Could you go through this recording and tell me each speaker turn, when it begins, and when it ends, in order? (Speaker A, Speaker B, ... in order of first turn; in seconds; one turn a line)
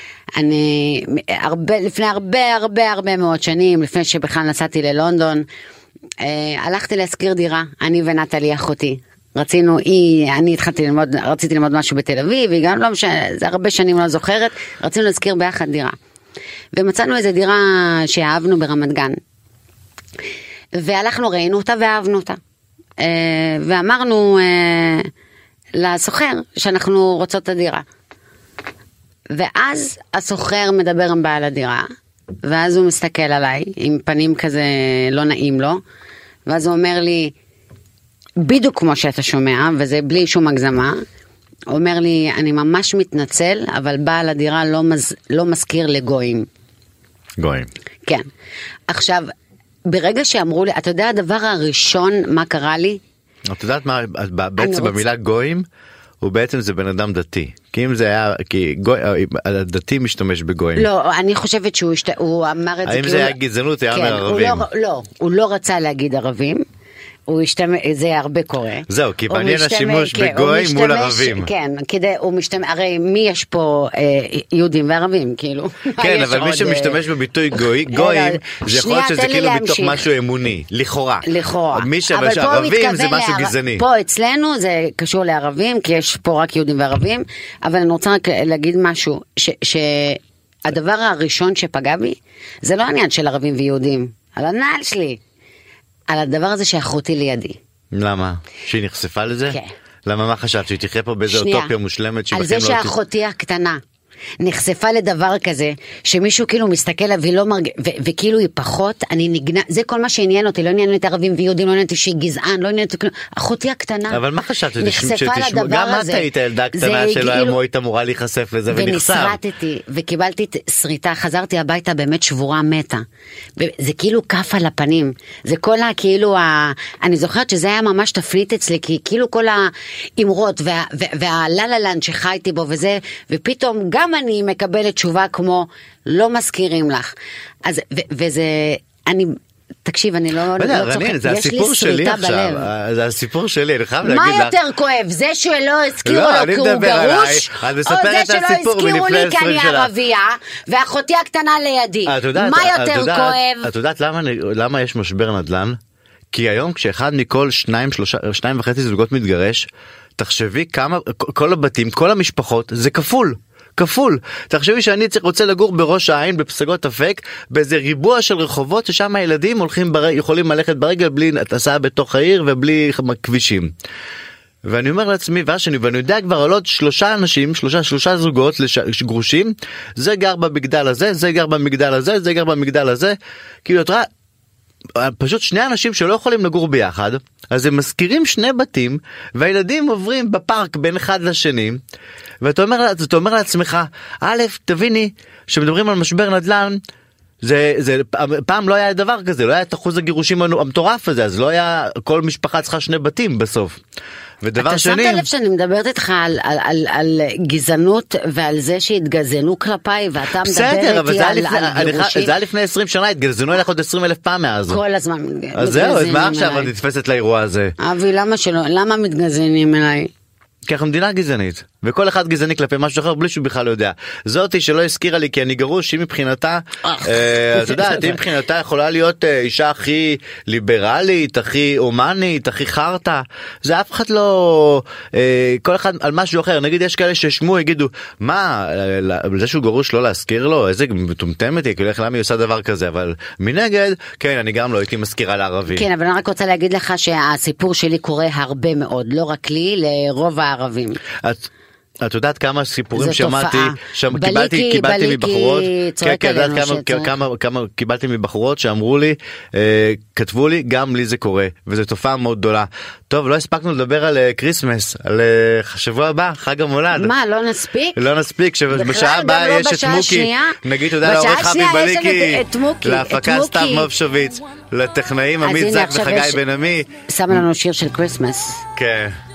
Speaker A: 0.3-5.5
Speaker A: 6.2-15.9
Speaker A: 16.7-19.2
Speaker A: 20.7-22.4
Speaker A: 23.0-25.1
Speaker A: 25.8-27.8
Speaker A: 29.3-31.9
Speaker A: 32.4-35.8
Speaker A: 36.5-37.3
Speaker A: 38.4-41.0
Speaker A: 41.7-46.5
Speaker B: 47.4-47.7
Speaker A: 48.9-49.3
Speaker A: 49.9-53.0
Speaker B: 53.5-55.6
Speaker A: 54.6-55.0
Speaker B: 56.2-60.9
Speaker A: 60.8-63.4
Speaker B: 62.8-64.6
Speaker A: 63.9-66.6
Speaker A: 67.3-77.0
Speaker B: 68.9-71.5
Speaker B: 76.0-83.8
Speaker A: 77.9-80.0
Speaker A: 81.2-95.2
Speaker A: 96.1-97.6
Speaker B: 97.9-102.9
Speaker A: 99.5-99.7
Speaker A: 101.3-101.7
Speaker A: 102.3-103.8
Speaker A: 104.4-114.2
Speaker B: 114.1-119.4
Speaker A: 114.8-117.6
Speaker A: 118.7-123.0
Speaker A: 123.6-137.1
Speaker A: 137.6-142.7
Speaker B: 140.6-144.5
Speaker A: 144.0-153.7
Speaker B: 146.0-149.9
Speaker B: 152.1-155.8
Speaker B: 156.3-173.7
Speaker B: 174.6-184.1
Speaker B: 184.9-191.8
Speaker B: 192.4-196.8
Speaker B: 197.4-203.8
Speaker B: 204.4-205.3
Speaker A: 204.6-212.3
Speaker B: 210.4-214.8
Speaker A: 214.7-216.7
Speaker B: 215.6-217.7
Speaker A: 217.8-220.1
Speaker B: 220.7-245.8
Speaker A: 226.8-228.2
Speaker A: 245.7-251.0
Speaker B: 251.2-251.5
Speaker B: 252.0-267.1
Speaker A: 252.9-257.1
Speaker A: 266.9-268.0
Speaker B: 267.9-277.4
Speaker A: 268.7-273.9
Speaker A: 275.4-276.4
Speaker A: 277.1-278.6
Speaker B: 278.7-279.2